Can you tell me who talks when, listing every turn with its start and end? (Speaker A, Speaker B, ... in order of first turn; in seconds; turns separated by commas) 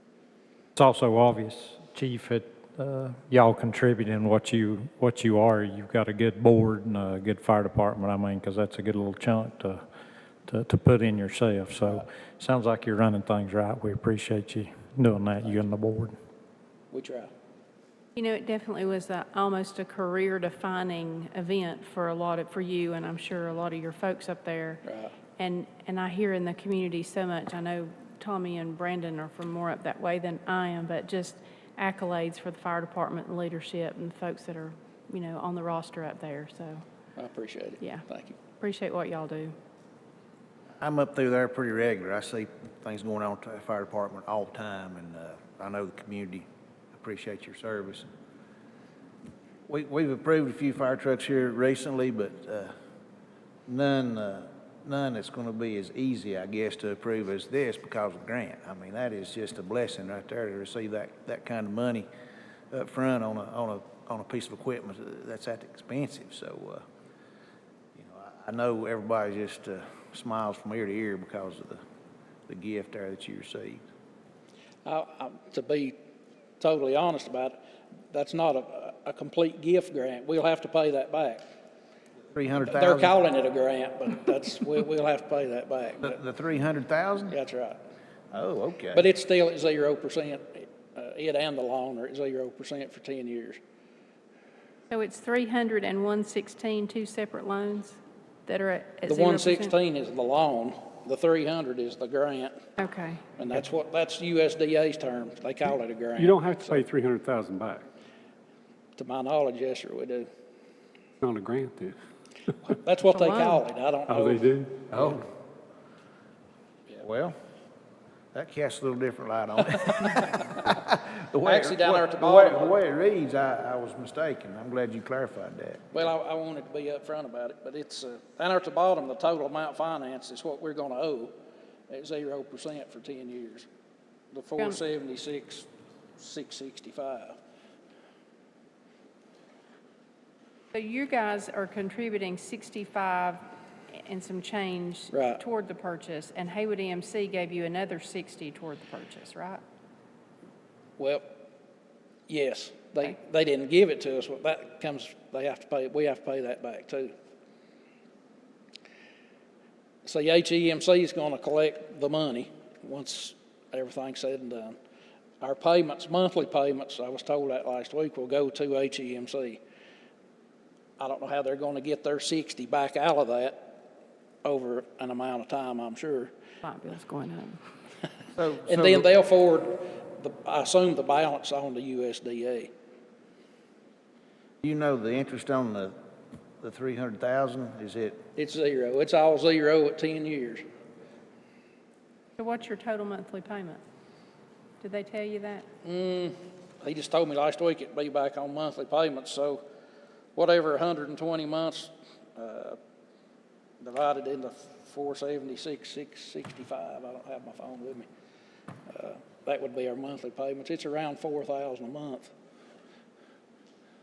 Speaker A: 0.8-9.8, Speaker A: 10.5-16.1, Speaker B: 16.9-17.3, Speaker C: 18.1-24.8, Speaker B: 24.8-25.1, Speaker C: 25.4-36.8, Speaker B: 37.2-38.4, Speaker C: 37.8-38.0, Speaker C: 38.6-39.5, Speaker D: 40.8-48.1, Speaker D: 49.7-52.7, Speaker D: 53.7-62.1, Speaker D: 62.7-66.8, Speaker D: 67.9-71.8, Speaker D: 72.5-73.8, Speaker B: 74.8-76.0, Speaker B: 76.6-77.6, Speaker B: 78.1-81.4, Speaker D: 82.3-83.1, Speaker B: 82.7-86.2, Speaker D: 86.0-87.3, Speaker B: 87.3-87.8, Speaker D: 88.3-89.0, Speaker B: 88.9-93.6, Speaker C: 94.9-97.8, Speaker C: 98.5-99.7, Speaker B: 99.0-102.6, Speaker C: 102.8-103.2, Speaker B: 103.4-106.8, Speaker E: 106.2-107.8, Speaker B: 109.0-110.3, Speaker E: 111.2-111.9, Speaker B: 112.7-114.5, Speaker C: 113.1-113.6, Speaker E: 114.1-115.2, Speaker D: 117.0-117.3, Speaker D: 118.3-126.1, Speaker B: 121.4-122.8, Speaker B: 125.9-131.3, Speaker B: 131.9-133.7, Speaker B: 134.3-137.3, Speaker C: 140.7-149.6, Speaker B: 145.1-145.4, Speaker B: 151.0-151.3, Speaker B: 152.3-157.1, Speaker B: 160.0-164.8, Speaker B: 165.4-169.6, Speaker B: 171.0-173.7, Speaker B: 174.4-176.3, Speaker C: 176.6-177.6, Speaker D: 178.3-179.1, Speaker B: 178.6-182.7, Speaker D: 184.6-185.9, Speaker D: 186.6-188.2, Speaker B: 188.3-190.6, Speaker C: 192.4-193.8, Speaker C: 194.8-195.7, Speaker B: 195.8-199.6, Speaker B: 200.3-202.8, Speaker B: 203.8-208.1, Speaker B: 208.9-212.3